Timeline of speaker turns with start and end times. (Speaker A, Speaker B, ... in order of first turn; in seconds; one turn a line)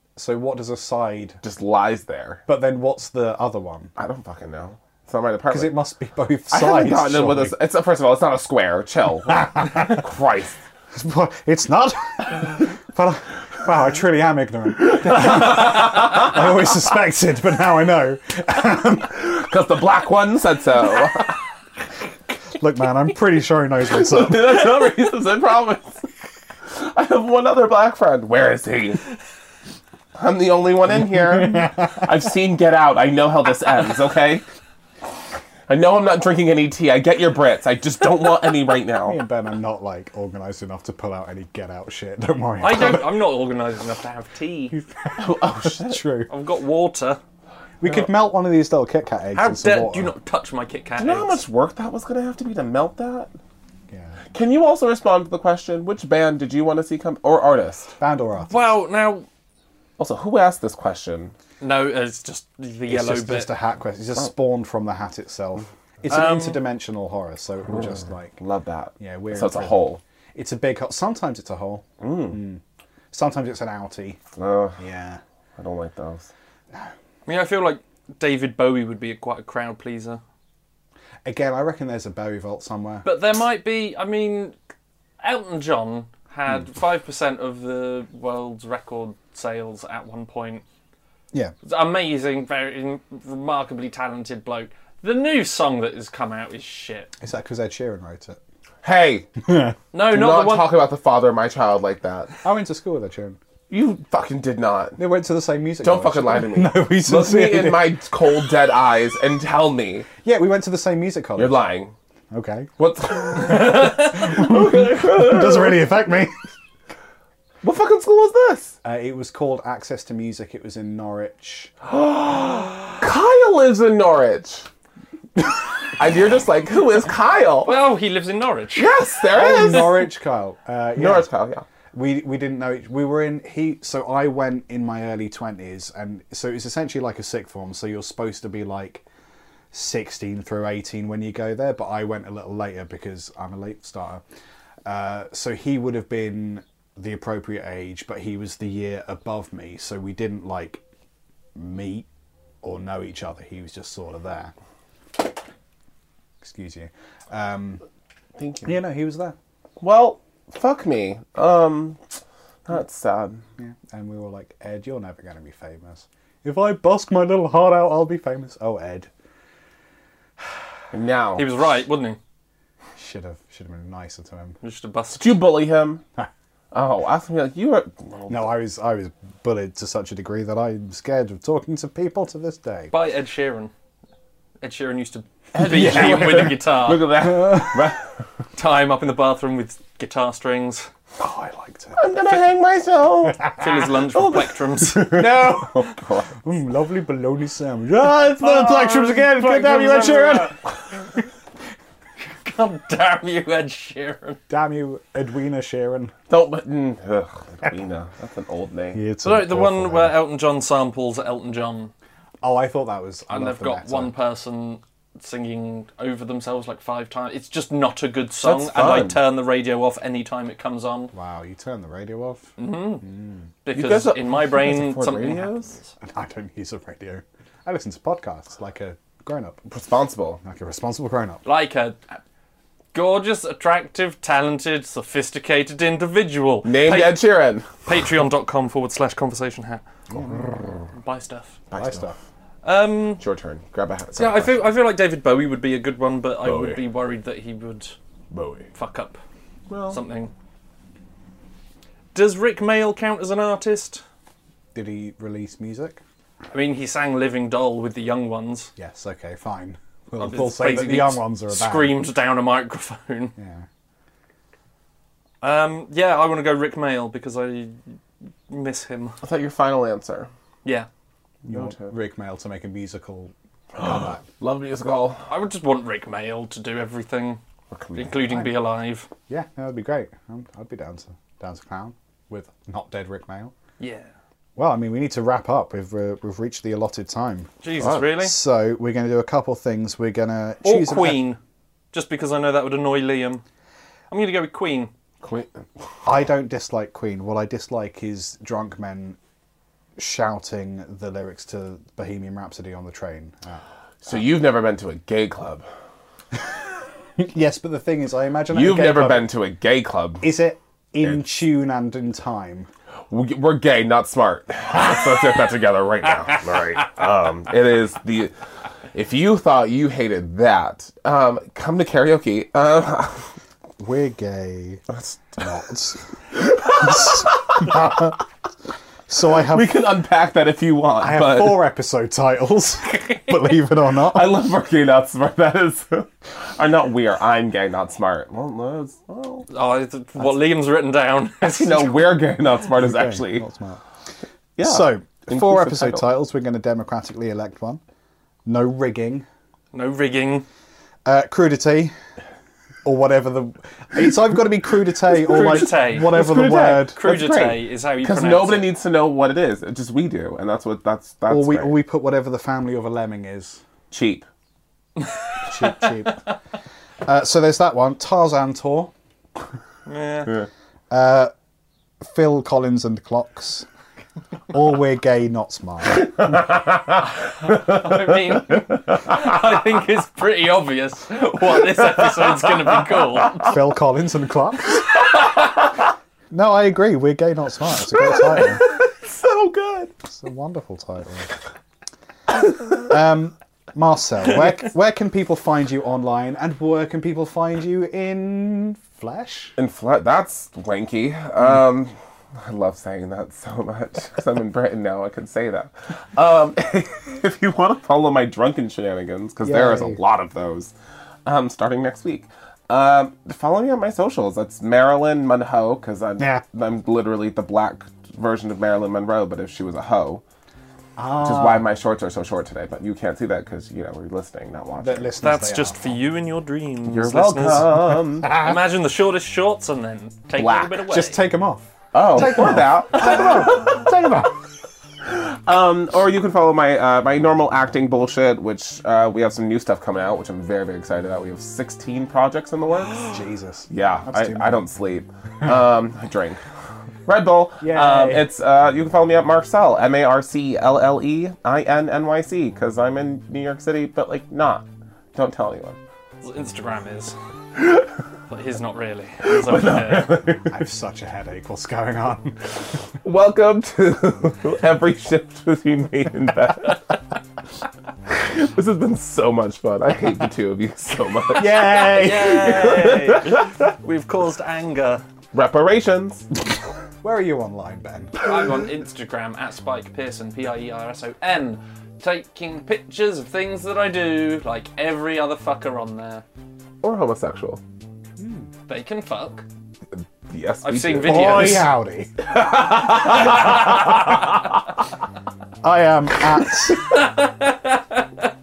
Speaker A: 0.1-1.4
Speaker B: 1.4-2.4
Speaker A: 2.5-3.9
Speaker B: 4.0-5.8
Speaker A: 5.5-7.6
Speaker B: 6.5-10.6
Speaker A: 9.4-9.9
Speaker A: 10.9-19.2
Speaker B: 19.1-21.4
Speaker A: 22.6-24.7
Speaker B: 23.9-26.1
Speaker B: 26.7-29.1
Speaker B: 30.1-34.4
Speaker B: 35.7-39.2
Speaker A: 39.1-43.1
Speaker C: 42.6-44.8
Speaker A: 44.7-46.3
Speaker B: 45.2-46.1
Speaker C: 46.3-47.2
Speaker A: 47.8-50.1
Speaker C: 49.4-51.4
Speaker B: 51.0-53.3
Speaker A: 53.9-54.2
Speaker B: 54.3-57.9
Speaker A: 58.0-58.7
Speaker C: 58.5-59.3
Speaker B: 60.0-61.3
Speaker C: 61.6-63.5
Speaker A: 62.9-68.4
Speaker C: 66.1-66.6
Speaker B: 68.4-70.0
Speaker A: 69.0-69.8
Speaker A: 70.3-72.6
Speaker B: 72.0-72.4
Speaker A: 73.1-74.2
Speaker B: 74.4-74.8
Speaker A: 74.8-75.2
Speaker B: 75.6-76.3
Speaker C: 77.3-80.2
Speaker A: 81.2-83.1
Speaker C: 83.0-84.6
Speaker C: 85.2-90.6
Speaker C: 91.6-97.1
Speaker A: 97.2-98.4
Speaker B: 98.8-99.3
Speaker A: 99.5-99.8
Speaker C: 99.9-100.8
Speaker B: 100.0-102.3
Speaker A: 102.4-103.4
Speaker B: 103.7-105.0
Speaker A: 105.0-108.0
Speaker B: 105.8-110.1
Speaker A: 110.2-111.6
Speaker B: 111.4-111.9
Speaker A: 112.3-112.7
Speaker B: 112.8-115.9
Speaker A: 113.3-116.3
Speaker B: 117.6-118.8
Speaker A: 118.8-121.7
Speaker B: 121.9-124.7
Speaker B: 126.0-127.8
Speaker C: 127.6-128.9
Speaker B: 128.8-130.1
Speaker A: 129.3-131.3
Speaker B: 131.0-131.6
Speaker A: 131.9-139.0
Speaker A: 139.7-144.2
Speaker A: 144.8-150.8
Speaker A: 151.6-152.1
Speaker A: 152.6-154.5
Speaker A: 156.4-157.8
Speaker B: 158.4-158.8
Speaker A: 158.6-159.4
Speaker B: 159.8-162.1
Speaker B: 162.7-163.4
Speaker A: 163.6-169.1
Speaker B: 170.9-171.5
Speaker C: 171.4-172.2
Speaker A: 173.0-174.6
Speaker C: 174.6-175.5
Speaker B: 175.1-176.0
Speaker B: 176.7-178.4
Speaker A: 178.3-182.9
Speaker C: 182.9-183.7
Speaker C: 184.6-187.1
Speaker B: 185.6-188.1
Speaker A: 185.6-186.6
Speaker A: 187.2-187.8
Speaker C: 188.6-190.9
Speaker A: 191.2-192.0
Speaker B: 192.0-193.6
Speaker C: 193.6-195.3
Speaker B: 194.1-196.4
Speaker A: 195.1-200.6
Speaker C: 198.9-200.5
Speaker B: 199.9-200.2
Speaker C: 202.2-204.4
Speaker A: 204.5-206.1
Speaker B: 206.3-209.0
Speaker A: 208.9-210.2
Speaker C: 209.2-211.9
Speaker A: 212.4-214.1
Speaker C: 213.3-221.1
Speaker B: 218.4-219.2
Speaker A: 221.1-223.5
Speaker C: 222.6-223.1
Speaker C: 223.6-225.9
Speaker B: 223.7-225.7
Speaker A: 226.0-229.6
Speaker B: 229.7-230.4
Speaker A: 230.4-231.4
Speaker C: 231.4-232.2
Speaker C: 232.9-237.2
Speaker B: 236.6-237.7
Speaker C: 237.8-239.8
Speaker A: 240.1-240.4
Speaker B: 240.4-240.8
Speaker C: 240.9-241.6
Speaker B: 241.7-242.1
Speaker A: 241.8-242.2
Speaker C: 242.6-243.2
Speaker B: 243.2-244.7
Speaker C: 244.1-247.9
Speaker B: 246.4-246.8
Speaker B: 248.3-248.7
Speaker C: 248.8-249.2
Speaker B: 249.7-250.0
Speaker C: 249.9-250.3
Speaker C: 252.1-254.0
Speaker A: 254.7-256.0
Speaker C: 256.5-258.7
Speaker A: 258.8-262.0
Speaker C: 260.2-263.4
Speaker A: 263.4-263.6
Speaker C: 265.4-267.8
Speaker C: 268.5-269.2
Speaker B: 269.2-270.3
Speaker A: 271.4-274.2
Speaker B: 271.5-271.9
Speaker B: 273.8-275.3
Speaker C: 275.3-277.4
Speaker B: 277.7-278.4
Speaker C: 277.9-279.1
Speaker A: 278.1-278.5
Speaker A: 279.3-283.5
Speaker C: 283.8-284.1
Speaker A: 284.6-287.5
Speaker C: 287.6-288.4
Speaker B: 287.8-288.1
Speaker A: 288.1-291.3
Speaker C: 290.6-291.4
Speaker C: 291.9-293.4
Speaker C: 294.1-294.9
Speaker B: 295.2-295.6
Speaker A: 296.1-299.2
Speaker A: 300.0-303.6
Speaker B: 304.0-305.6
Speaker A: 307.2-309.3
Speaker B: 308.5-310.2
Speaker A: 310.2-312.7
Speaker B: 311.0-311.4
Speaker B: 313.1-318.3
Speaker B: 318.9-323.3
Speaker A: 323.8-324.8
Speaker B: 324.9-325.4
Speaker A: 325.4-326.0
Speaker B: 326.4-328.1
Speaker A: 326.6-328.2
Speaker A: 329.1-329.8
Speaker B: 329.4-331.6
Speaker A: 331.0-334.4
Speaker B: 334.1-339.5
Speaker C: 339.5-342.2
Speaker B: 341.4-343.5
Speaker A: 342.7-343.8
Speaker B: 344.6-346.1
Speaker A: 344.6-347.8
Speaker A: 348.5-349.3
Speaker C: 349.7-350.5
Speaker A: 351.1-351.9
Speaker A: 352.8-357.0
Speaker C: 355.2-356.4
Speaker B: 355.3-361.8
Speaker C: 356.9-358.7
Speaker A: 361.3-363.6
Speaker B: 363.9-364.2
Speaker A: 365.5-366.3
Speaker A: 367.1-368.9
Speaker C: 369.9-370.4
Speaker A: 370.9-371.3
Speaker A: 372.0-373.6
Speaker A: 374.5-376.1
Speaker B: 376.2-376.7
Speaker C: 377.5-383.6
Speaker A: 383.4-384.9
Speaker A: 386.3-388.6
Speaker B: 387.9-389.9
Speaker A: 390.1-391.3
Speaker A: 392.7-399.6
Speaker B: 399.6-410.7
Speaker A: 409.4-410.0
Speaker B: 411.3-420.2
Speaker A: 421.0-421.6
Speaker B: 421.2-425.1
Speaker A: 424.8-425.9
Speaker C: 425.2-431.2
Speaker B: 426.9-428.5
Speaker A: 428.2-428.5
Speaker B: 430.4-430.9
Speaker A: 430.9-434.4
Speaker B: 431.9-433.9
Speaker B: 435.1-443.1
Speaker A: 443.1-444.6
Speaker B: 443.7-446.4
Speaker B: 447.1-455.8
Speaker A: 447.6-448.3
Speaker C: 456.2-457.1
Speaker C: 458.3-460.2
Speaker B: 459.2-460.6
Speaker A: 460.5-462.4
Speaker B: 463.0-466.9
Speaker B: 468.1-473.5
Speaker A: 471.3-472.5
Speaker C: 471.6-475.0
Speaker B: 475.3-476.3
Speaker A: 477.0-478.2
Speaker C: 478.2-486.2
Speaker B: 486.8-487.6
Speaker A: 488.2-488.5
Speaker C: 488.7-489.4
Speaker B: 490.3-491.7
Speaker C: 490.6-491.7
Speaker A: 491.0-492.2
Speaker B: 492.3-493.7
Speaker C: 493.3-493.9
Speaker A: 495.6-497.0
Speaker C: 496.8-498.3